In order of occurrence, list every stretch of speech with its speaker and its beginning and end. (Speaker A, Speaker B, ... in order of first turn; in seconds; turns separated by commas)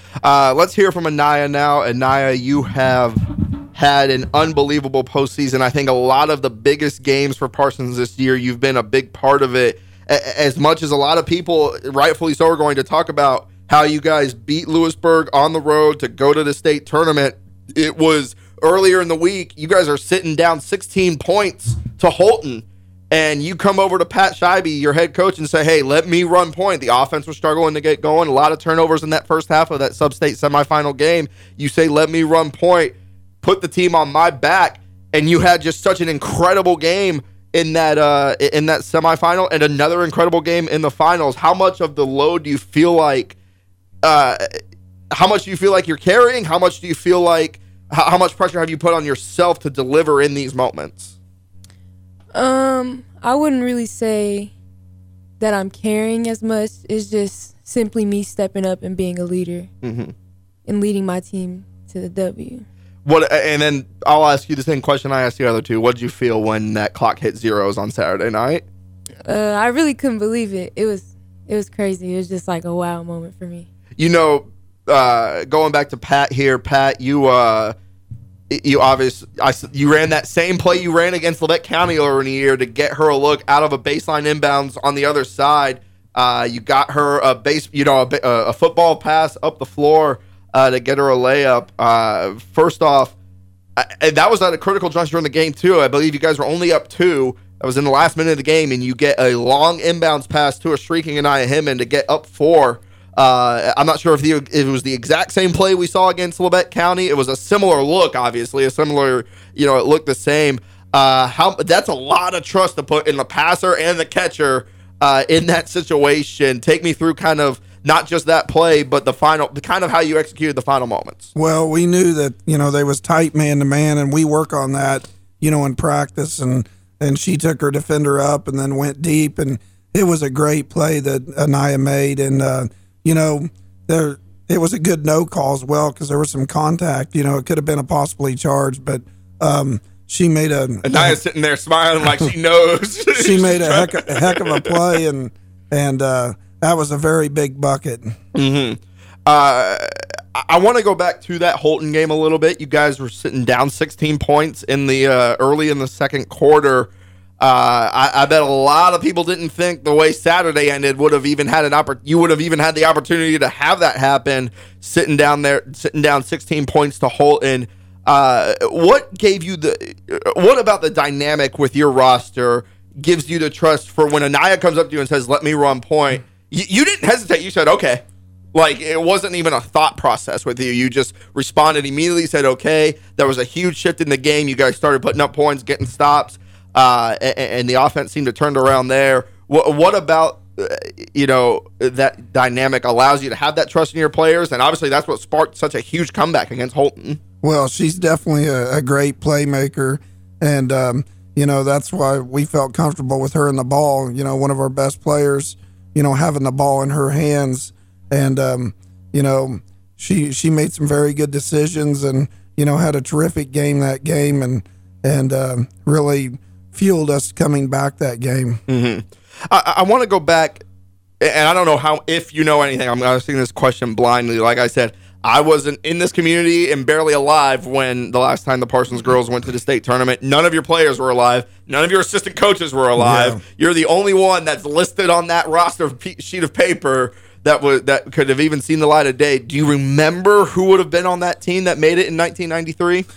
Speaker A: 0.2-43.4, Speaker A: 44.0-44.6, Speaker A: 45.1-51.1, Speaker B: 52.3-54.5, Speaker B: 55.4-59.7, Speaker A: 59.8-60.1, Speaker B: 60.6-62.6, Speaker A: 63.0-68.6, Speaker B: 69.2-73.7, Speaker A: 74.0-77.7, Speaker A: 78.5-93.1, Speaker A: 93.8-121.3, Speaker C: 121.3-141.2, Speaker A: 140.8-144.8, Speaker C: 143.2-148.2, Speaker A: 148.3-178.0, Speaker A: 178.5-197.2, Speaker C: 197.4-218.6, Speaker A: 218.7-220.6, Speaker A: 221.2-243.1, Speaker C: 233.0-233.4